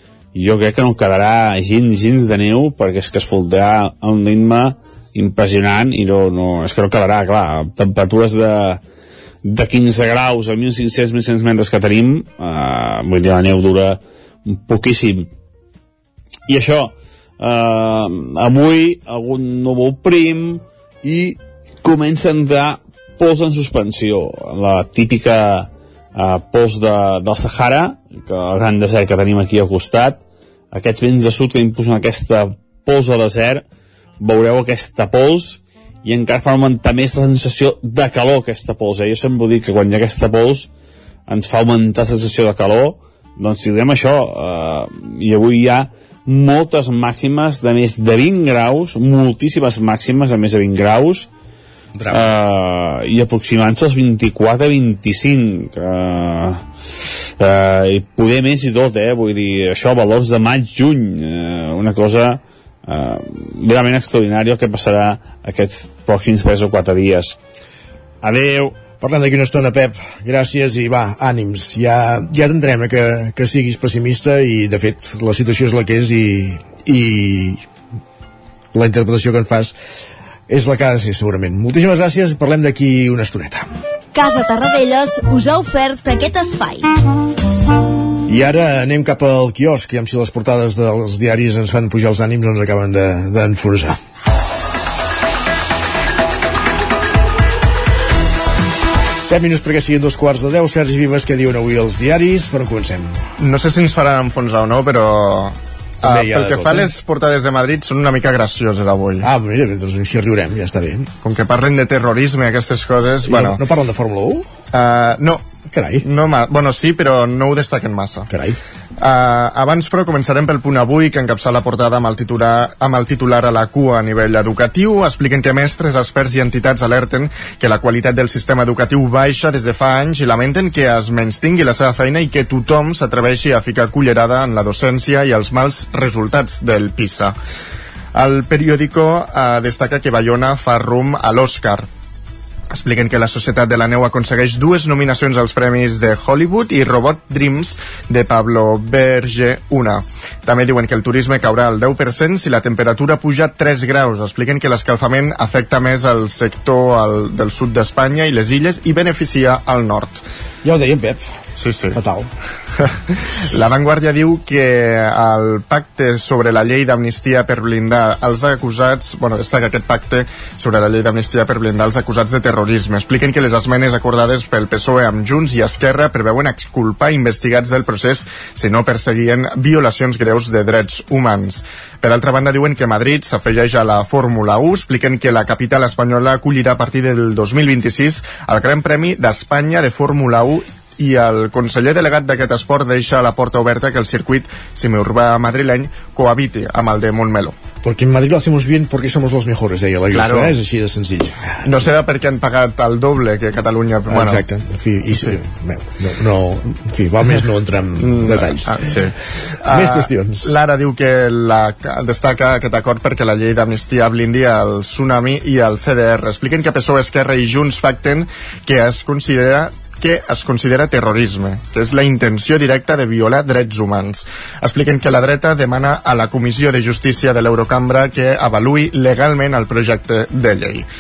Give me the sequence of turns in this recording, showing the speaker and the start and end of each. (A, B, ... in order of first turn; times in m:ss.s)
0:00.3-0:08.8 A
0:09.4-0:15.3 A
0:16.5-0:30.2 A
0:30.7-0:33.6 A
0:34.2-0:40.7 A
0:41.3-0:51.3 A
0:52.1-0:56.7 A
0:57.4-1:07.4 A
1:08.2-1:08.8 A
1:09.0-1:17.6 B
1:18.7-1:19.7 B
1:20.5-1:23.7 B
1:24.1-1:26.9 C
1:28.3-1:34.0 B
1:39.2-1:43.2 B
1:43.4-1:49.3 D
1:46.0-1:46.9 B
1:49.2-1:51.1 B
1:51.2-1:53.6 D
1:53.3-1:54.5 B
1:54.7-1:55.4 D
1:55.7-1:56.0 B
1:56.0-1:58.3 D
1:58.3-1:58.6 B
1:59.0-2:17.4 D
2:18.2-2:21.9 D
2:22.7-2:40.2 D
2:40.6-2:41.2 B
2:41.6-2:42.0 D
2:41.9-2:42.3 B
2:43.5-3:17.6 D
3:17.8-3:21.6 B
3:20.1-3:20.6 D
3:21.6-3:24.4 D
3:24.1-3:28.7 B
3:28.0-3:50.9 D
3:29.7-3:30.5 B